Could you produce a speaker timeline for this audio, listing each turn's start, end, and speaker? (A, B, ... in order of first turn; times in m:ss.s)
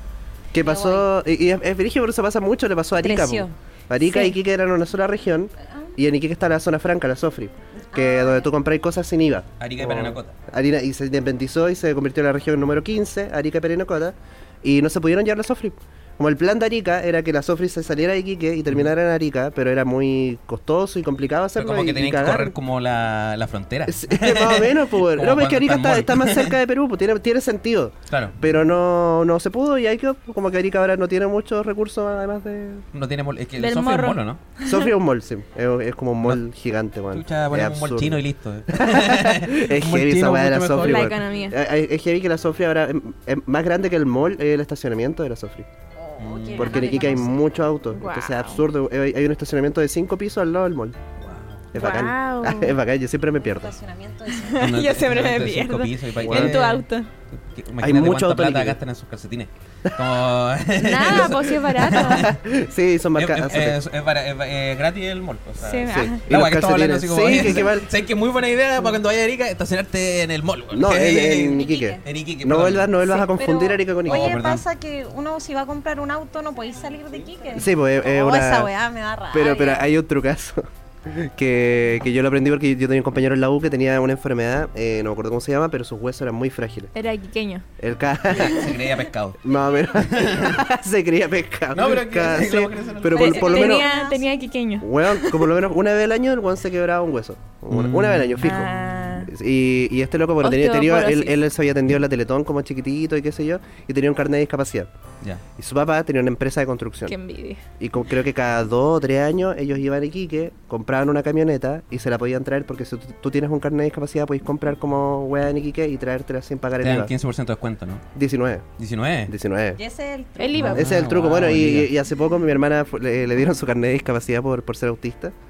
0:00.5-0:22.6 A
0:00.6-0:01.1 B
0:03.0-0:03.5 B
0:04.1-0:04.3 C
0:07.9-0:08.5 B
0:09.6-0:10.4 D
0:21.6-0:26.5 D
0:23.9-0:32.8 A
0:28.1-0:28.4 D
0:32.9-0:34.4 D
0:33.6-0:34.9 C
0:34.6-0:45.7 A
0:37.1-0:41.2 D
0:40.8-0:41.6 C
0:46.0-0:47.5 B
0:46.2-0:47.1 D
0:46.6-0:51.0 A
0:47.9-0:48.6 C
0:51.2-0:51.7 D
0:51.7-0:52.8 C
0:51.7-0:53.8 A
0:53.4-0:54.7 B
0:54.3-0:57.1 C
0:54.6-0:56.7 D
0:56.2-0:56.8 A
0:57.3-1:02.4 D
0:57.8-0:58.8 A
1:00.8-1:02.3 C
1:01.9-1:03.8 A
1:03.2-1:12.9 D
1:05.6-1:06.2 C
1:05.9-1:07.9 A
1:10.7-1:14.3 A
1:11.5-1:12.0 B
1:13.1-1:19.9 B
1:14.0-1:14.6 D
1:17.5-1:18.7 A
1:19.3-1:26.9 A
1:26.9-1:27.7 C
1:27.8-1:28.8 A
1:28.3-1:29.4 D
1:29.4-1:33.9 A
1:29.5-1:30.2 B
1:29.9-1:30.6 D
1:31.7-1:33.4 D
1:33.1-1:34.4 B
1:33.2-1:35.4 C
1:34.8-1:44.9 A
1:37.7-1:38.5 D
1:38.4-1:39.3 C
1:40.4-1:41.3 C
1:45.6-1:47.2 A
1:47.1-1:47.6 C
1:47.8-1:57.1 A
1:56.8-1:58.1 D
1:58.2-1:58.7 A
1:58.8-1:59.3 D
1:59.3-1:59.8 A
1:59.8-2:00.8 B
2:00.4-2:00.8 C
2:00.6-2:05.4 A
2:00.6-2:01.9 D